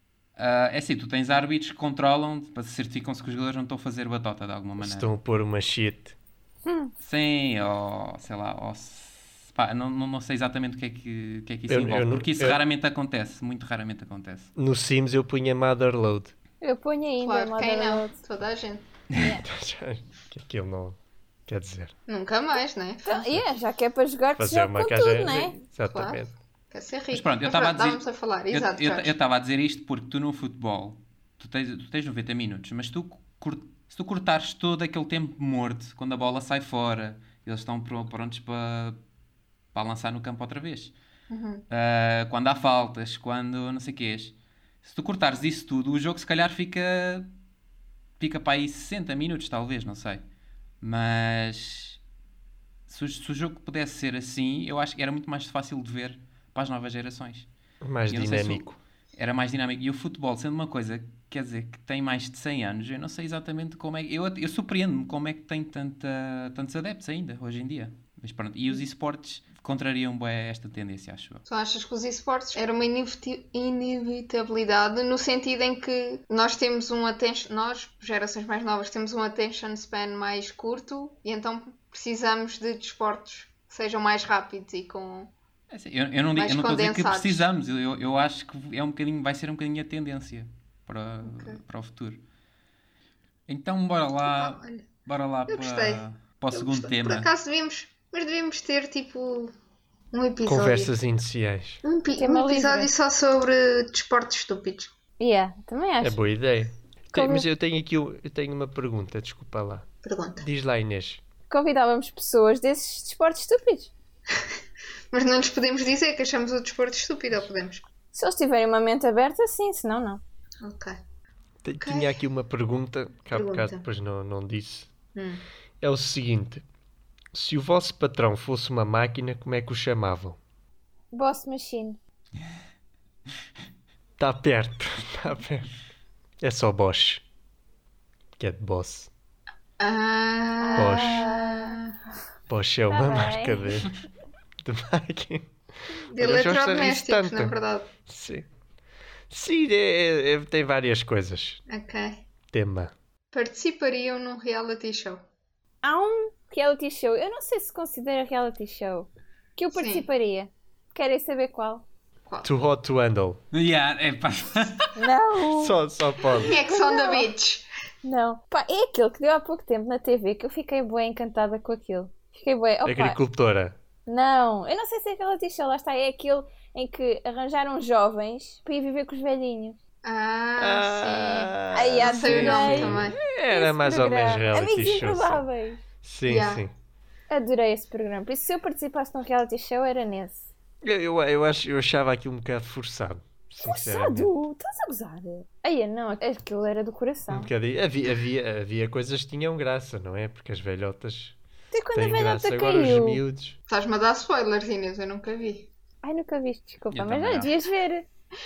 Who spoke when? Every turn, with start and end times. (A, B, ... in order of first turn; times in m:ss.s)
0:00.4-0:05.1 A
0:04.8-0:06.2 B
0:06.7-0:06.9 C
0:07.0-0:14.5 A
0:11.7-0:12.6 B
0:14.6-0:16.3 B
0:16.6-0:18.2 C
0:17.2-0:18.8 D
0:19.2-0:19.4 C
0:19.4-0:21.9 B
0:22.1-0:23.4 D
0:23.0-0:25.6 C
0:24.4-0:26.3 B
0:25.8-0:29.1 D
0:27.1-0:39.0 A
0:39.7-0:40.9 A
0:41.3-0:41.6 D
0:41.7-0:47.3 A
0:48.2-0:50.2 A
0:50.8-0:52.0 A
0:52.9-0:57.5 A
0:57.8-0:58.8 B
0:58.1-1:11.4 A
1:11.5-1:25.3 D
1:25.7-1:32.2 A
1:26.4-1:27.5 D
1:31.2-1:31.6 D
1:33.5-1:37.3 A
1:34.2-1:34.8 D
1:35.5-1:39.5 D
1:40.1-1:40.9 D
1:40.4-1:41.8 B
1:41.8-1:44.9 D
1:42.2-1:42.9 C
1:45.2-1:46.2 C
1:46.0-1:49.9 B
1:47.1-1:47.5 C
1:50.0-1:50.4 D
1:50.4-1:51.2 B
1:51.5-1:53.9 C
1:55.1-1:57.9 D
1:58.1-2:00.2 C
2:00.6-2:01.0 D
2:01.6-2:04.9 B
2:01.8-2:02.1 D
2:03.3-2:03.8 D
2:05.2-2:05.4 D
2:05.8-2:06.6 B
2:07.3-2:10.4 B
2:11.1-2:12.0 C
2:14.2-2:15.7 B
2:16.4-2:17.2 B
2:18.4-2:19.1 B
2:19.8-2:21.9 D
2:20.6-2:21.8 C
2:20.8-2:21.2 B
2:22.5-2:23.9 B
2:22.9-2:23.8 C
2:24.6-2:25.5 B
2:26.1-2:27.9 D
2:26.2-2:27.6 B
2:28.1-2:28.5 B
2:29.3-2:31.6 B
2:31.7-2:32.2 D
2:32.5-2:32.9 B
2:33.3-2:35.2 D
2:35.8-2:41.8 C
2:39.7-2:40.1 D
2:42.4-2:43.4 B
2:43.5-2:44.9 A
2:45.0-2:45.8 C
2:45.5-2:46.5 B
2:46.4-2:47.7 D
2:46.5-2:47.3 C
2:48.0-2:53.2 C
2:52.8-2:53.8 B
2:54.1-2:59.8 C
3:00.0-3:03.2 D
3:00.6-3:05.4 B
3:01.7-3:05.8 C
3:02.2-3:02.7 A
3:06.0-3:06.7 B
3:06.3-3:06.6 D
3:07.3-3:10.5 C
3:10.8-3:14.3 B
3:13.6-3:17.5 C
3:17.3-3:21.4 B
3:21.7-3:23.2 C
3:21.9-3:23.6 B
3:23.7-3:25.7 D
3:26.0-3:28.1 C
3:26.9-3:27.5 A